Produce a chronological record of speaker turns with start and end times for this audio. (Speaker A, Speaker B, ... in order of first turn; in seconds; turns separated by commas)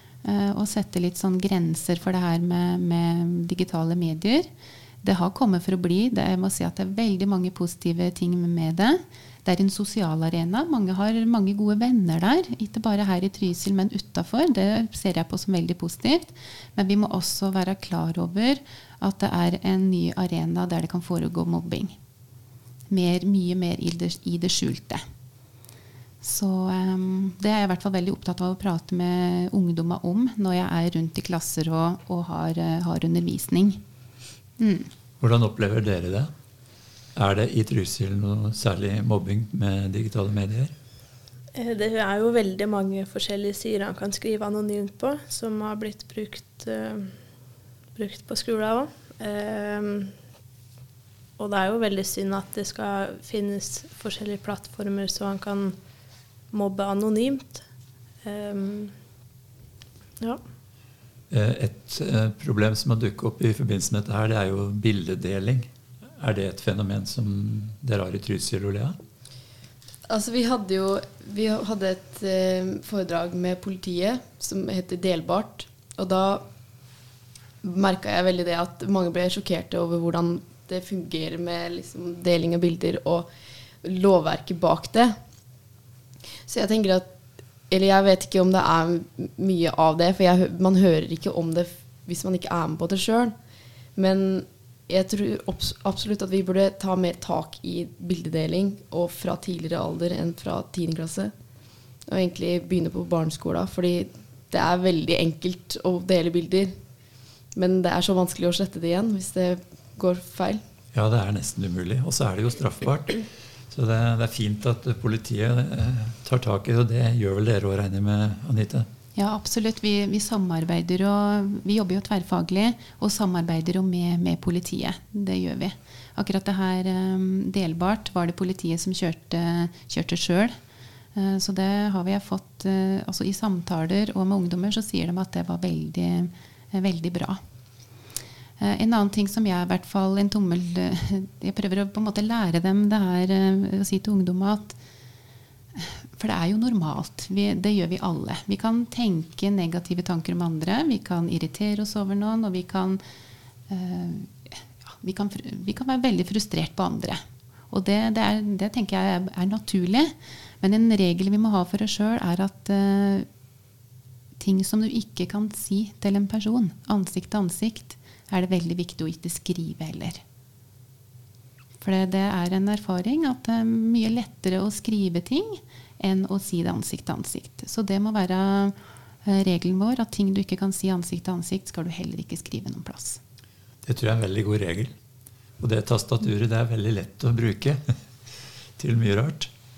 Speaker A: 0.2-4.5, Speaker A: 5.0-21.9, Speaker A: 22.9-25.0, Speaker A: 26.2-33.8, Speaker A: 34.6-34.9, Speaker B: 35.2-36.3, Speaker B: 37.2-40.7, Speaker C: 41.5-47.1, Speaker C: 48.0-50.1, Speaker C: 51.4-55.8, Speaker C: 56.5-57.6, Speaker C: 58.2-58.9, Speaker B: 61.3-69.0, Speaker D: 70.1-76.4, Speaker D: 77.6-83.3, Speaker D: 83.8-85.1, Speaker D: 86.5-87.1, Speaker D: 87.7-93.3, Speaker D: 94.0-101.3, Speaker D: 102.1-106.8, Speaker D: 107.5-110.6, Speaker B: 110.9-118.9, Speaker A: 119.2-130.6, Speaker A: 131.2-137.4, Speaker A: 138.6-144.8, Speaker A: 145.8-153.0, Speaker A: 153.7-163.3, Speaker A: 164.4-170.2, Speaker A: 171.8-183.2, Speaker B: 183.8-184.9, Speaker B: 185.6-187.8, Speaker B: 188.8-189.5